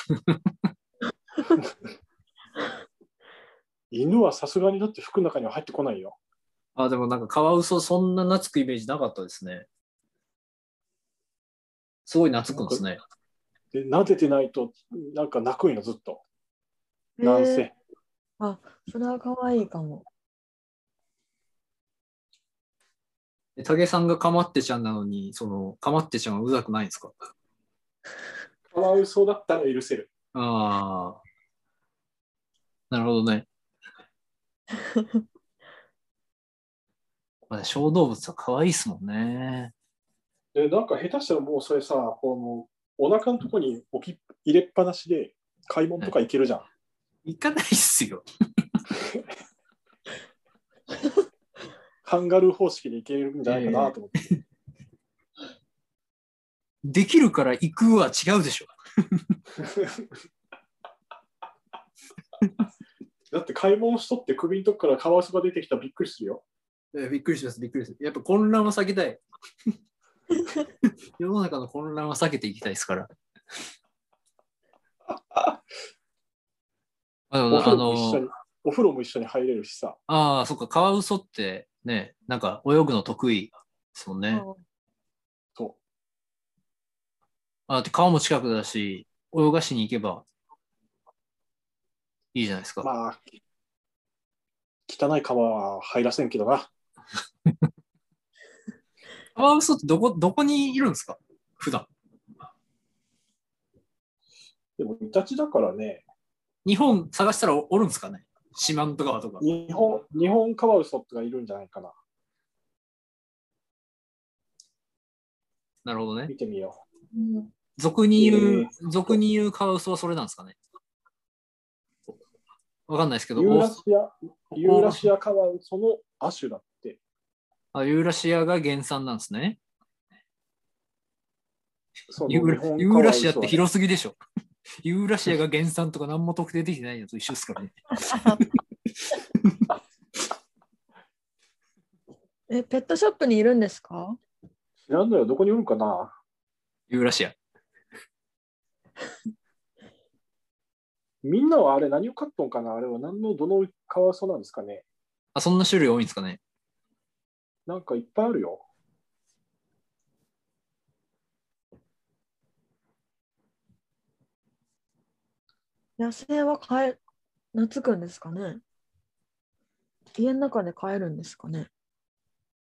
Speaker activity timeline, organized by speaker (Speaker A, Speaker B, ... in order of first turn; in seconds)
Speaker A: 3.9-6.2, 12.5-12.8, 13.7-16.2, 17.2-17.7, 28.7-30.1, 40.5-46.7, 52.0-54.2, 59.6-60.0, 63.3-66.4, 75.1-75.6, 77.5-80.0, 85.5-85.8, 92.8-93.2, 94.9-96.7, 104.8-106.0, 109.4-111.9, 116.3-116.8, 118.2-119.2, 123.3-127.0, 132.1-133.6, 144.9-146.2, 151.2-154.8, 157.7-158.7
Speaker B: 6.8-9.7, 12.1-13.0, 23.6-27.1, 30.3-31.2, 32.9-33.5, 37.5-39.7, 47.2-48.2, 53.5-53.9, 56.8-58.7, 66.9-69.2, 71.2-73.1, 77.3-78.2, 80.1-84.4, 87.7-90.2, 92.3-92.9, 99.3-101.9, 106.6-109.4, 115.8-116.3, 117.8-120.6, 122.9-123.8, 124.6-125.0, 127.7-129.6, 132.3-134.2, 134.8-137.7, 146.9-147.3, 155.3-156.4
Speaker C: 17.2-17.7, 18.4-20.0, 34.8-35.1, 84.3-84.6, 117.1-117.5, 138.0-138.4, 142.5-144.2, 166.0-167.0, 167.5-168.6, 170.2-171.7